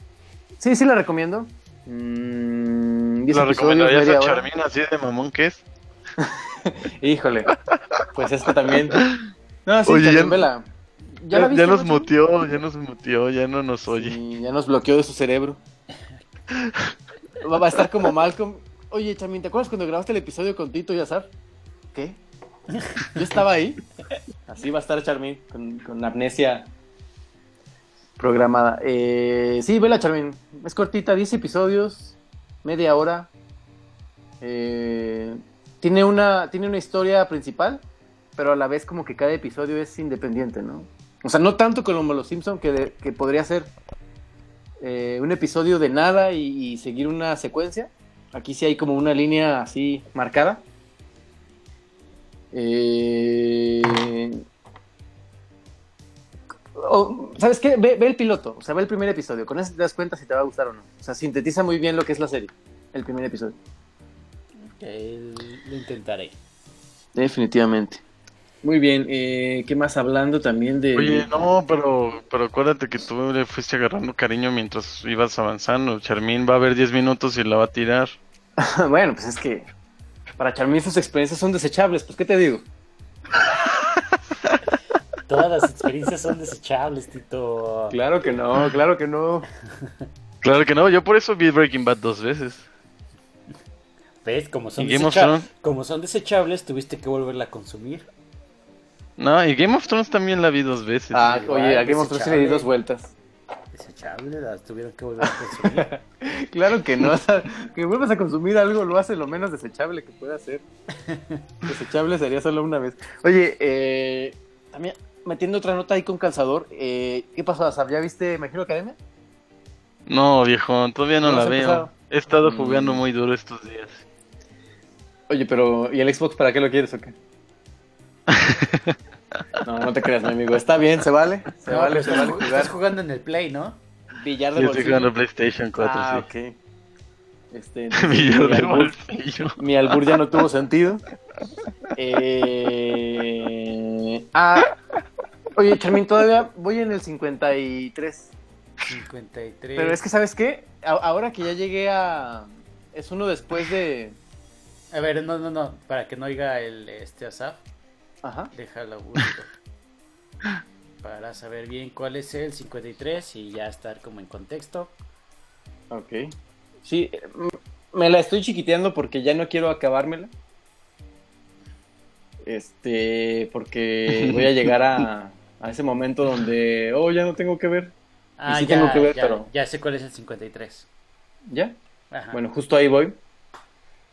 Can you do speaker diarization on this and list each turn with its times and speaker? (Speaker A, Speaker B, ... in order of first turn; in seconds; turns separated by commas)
Speaker A: 0.6-4.5, Speaker B: 3.3-5.6, Speaker A: 6.2-7.5, Speaker B: 7.7-8.0, Speaker A: 8.1-9.0, Speaker B: 8.7-9.2, Speaker A: 9.7-12.1, Speaker B: 9.8-10.5, Speaker B: 11.3-14.2, Speaker A: 13.9-15.6, Speaker B: 16.5-16.9, Speaker A: 17.4-21.3, Speaker A: 21.9-22.2, Speaker A: 23.1-23.8, Speaker A: 24.5-26.7, Speaker A: 28.2-33.3, Speaker A: 34.4-37.8, Speaker A: 38.4-43.7, Speaker A: 44.8-50.6, Speaker A: 52.5-54.4, Speaker A: 56.7-63.5, Speaker C: 64.6-66.3, Speaker A: 67.1-68.0, Speaker A: 68.6-71.3, Speaker B: 70.9-78.1, Speaker A: 78.6-79.7, Speaker A: 80.4-82.6, Speaker B: 83.4-83.9, Speaker C: 85.2-88.0, Speaker A: 87.9-89.5, Speaker B: 90.4-92.7, Speaker C: 94.2-98.1, Speaker B: 94.8-95.5, Speaker B: 99.2-101.3, Speaker A: 101.1-103.1, Speaker C: 101.2-102.7, Speaker C: 103.7-105.9, Speaker A: 105.2-110.6, Speaker C: 111.1-111.4, Speaker A: 111.6-119.0, Speaker B: 120.1-124.0, Speaker A: 121.2-123.0, Speaker A: 125.3-127.2, Speaker B: 128.3-129.3, Speaker A: 129.6-132.7, Speaker C: 131.7-133.8, Speaker A: 134.1-135.1, Speaker B: 134.5-136.3, Speaker A: 135.8-136.6, Speaker A: 137.5-138.9, Speaker B: 138.0-140.2, Speaker A: 139.6-141.0, Speaker A: 141.9-144.7, Speaker A: 145.5-148.3, Speaker C: 148.9-150.0, Speaker A: 149.8-154.2, Speaker C: 154.9-157.6, Speaker A: 158.2-158.5, Speaker C: 158.5-159.5, Speaker C: 161.0-164.9, Speaker A: 165.9-170.3, Speaker A: 172.4-177.9, Speaker B: 174.1-175.0, Speaker C: 178.4-180.9, Speaker A: 178.5-179.5, Speaker A: 181.5-181.8, Speaker C: 182.1-182.4, Speaker A: 182.3-183.2